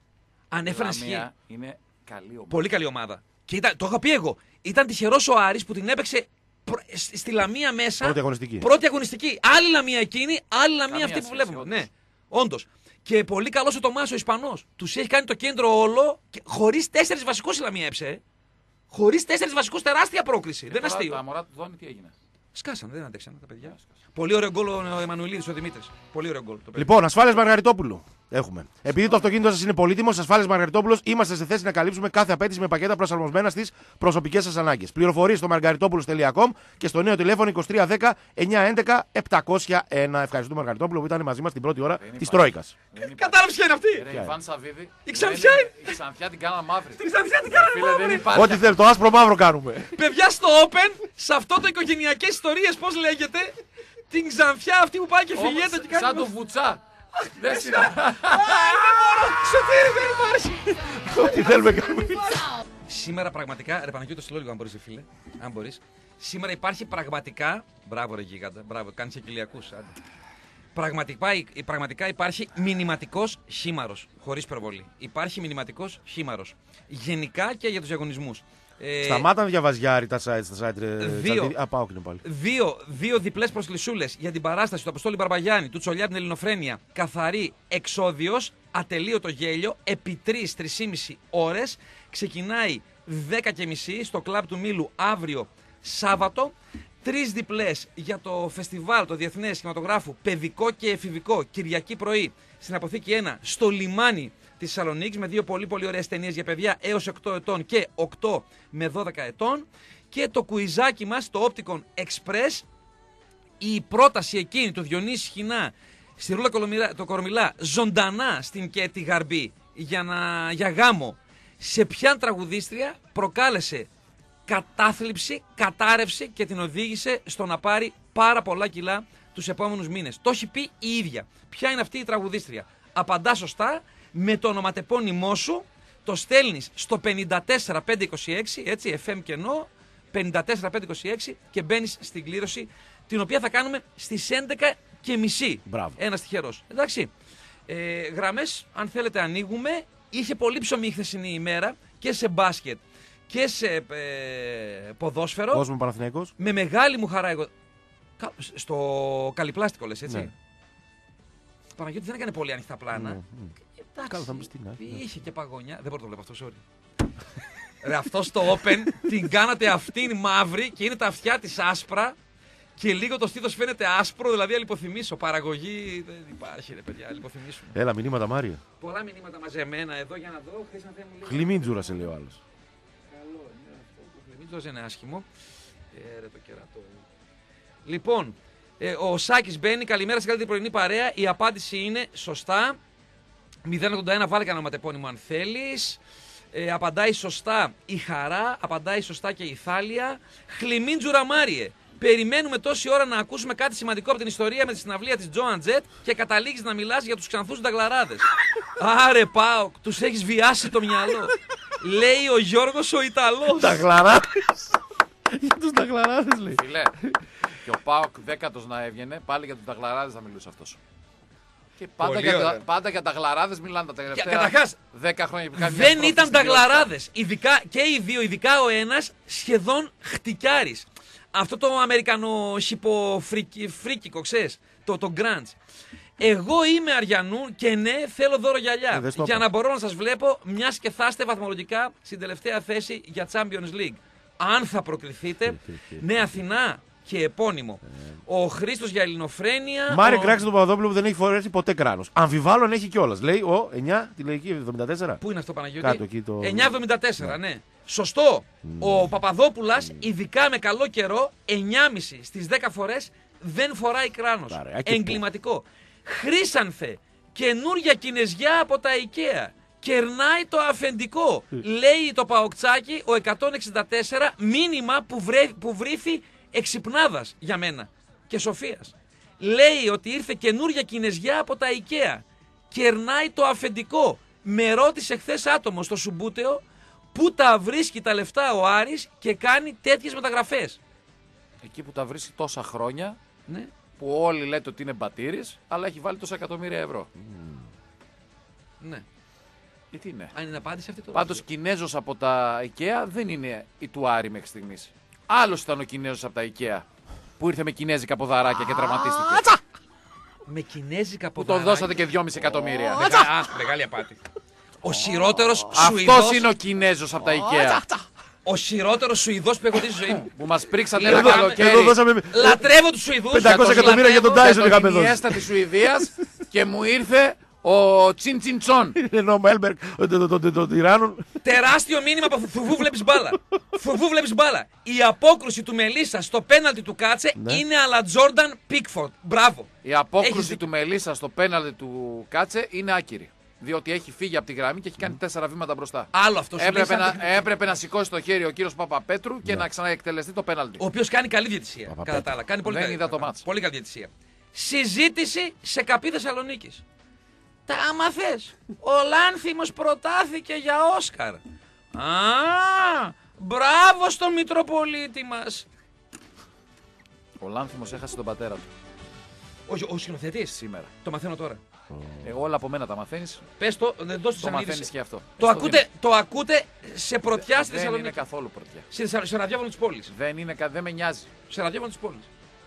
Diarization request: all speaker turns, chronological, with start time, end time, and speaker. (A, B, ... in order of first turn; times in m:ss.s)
0:00.5-0:01.3 A
0:00.6-0:02.7 B
0:02.5-0:18.2 A
0:08.0-0:08.6 C
0:10.9-0:11.9 B
0:18.9-0:21.2 A
0:20.7-0:22.1 B
0:22.5-0:26.9 A
0:26.8-0:42.7 C
0:42.0-0:48.6 B
0:43.0-0:44.0 A
0:45.0-0:46.0 A
0:47.0-0:48.2 A
0:48.3-0:50.0 C
0:49.9-0:53.6 A
0:54.1-0:56.3 A
0:55.4-0:56.8 B
0:57.2-1:09.9 A
0:57.4-0:58.8 B
1:01.0-1:02.4 C
1:10.7-1:19.3 A
1:19.0-1:22.2 C
1:21.0-1:21.5 A
1:22.2-1:52.6 A
1:53.6-2:03.9 A
2:04.5-2:27.1 A
2:25.6-2:26.0 C
2:27.7-2:35.6 A
2:35.5-2:36.3 C
2:36.4-2:37.5 A
2:38.2-2:40.3 A
2:41.8-2:43.2 A
2:42.9-2:43.5 C
2:43.8-2:46.6 A
2:44.1-2:45.0 C
2:47.8-2:52.2 A
2:52.8-2:57.8 A
2:57.7-2:58.6 C
2:58.8-3:02.0 A
3:01.2-3:02.4 C
3:03.1-3:05.2 A
3:05.9-3:07.0 A
3:07.8-3:12.8 A
3:13.6-3:16.0 A
3:16.5-3:33.8 A
3:33.5-3:34.8 C
3:35.3-3:37.2 C
3:36.5-3:36.9 B
3:37.6-3:40.8 B
3:41.8-3:46.9 B
3:42.0-3:42.6 A
3:44.1-3:44.8 A
3:45.6-3:55.6 A
3:56.2-4:10.4 A
3:58.9-3:59.5 C
4:05.5-4:06.3 C
4:09.9-4:15.2 C
4:15.2-4:46.6 A
4:15.8-4:17.4 C
4:18.6-4:19.1 C
4:24.5-4:25.2 C
4:47.1-4:50.8 A
4:51.6-4:53.2 B
4:54.0-4:57.1 B
4:57.2-4:57.6 C
4:59.9-5:00.3 B
5:00.3-5:01.4 A
5:01.1-5:06.8 B
5:07.4-5:09.5 B
5:08.6-5:09.6 C
5:10.5-5:12.0 A
5:11.4-5:13.1 B
5:12.6-5:13.3 C
5:13.0-5:14.2 A
5:14.8-5:16.5 A
5:15.7-5:17.8 B
5:17.2-5:18.0 C
5:18.4-5:20.3 A
5:20.2-5:22.0 B
5:21.0-5:21.6 A
5:21.0-5:22.6 C
5:22.3-5:24.5 A
5:23.3-5:25.4 C
5:23.4-5:29.0 B
5:29.0-5:31.3 C
5:31.4-5:39.7 A
5:37.4-5:37.6 C
5:39.8-5:50.8 B
5:40.2-5:40.6 A
5:46.1-5:47.4 A
5:50.8-5:56.8 A
5:51.9-5:52.3 C
5:52.6-5:53.4 B
5:57.7-6:01.4 A
6:01.9-6:05.6 A
6:07.4-6:08.7 B
6:09.7-6:11.6 A
6:10.5-6:10.9 B
6:11.9-6:12.3 C
6:12.2-6:13.4 B
6:13.6-6:18.2 A
6:14.4-6:15.8 B
6:17.4-6:18.9 B
6:18.9-6:20.1 A
6:20.1-6:21.3 B
6:21.5-6:22.3 A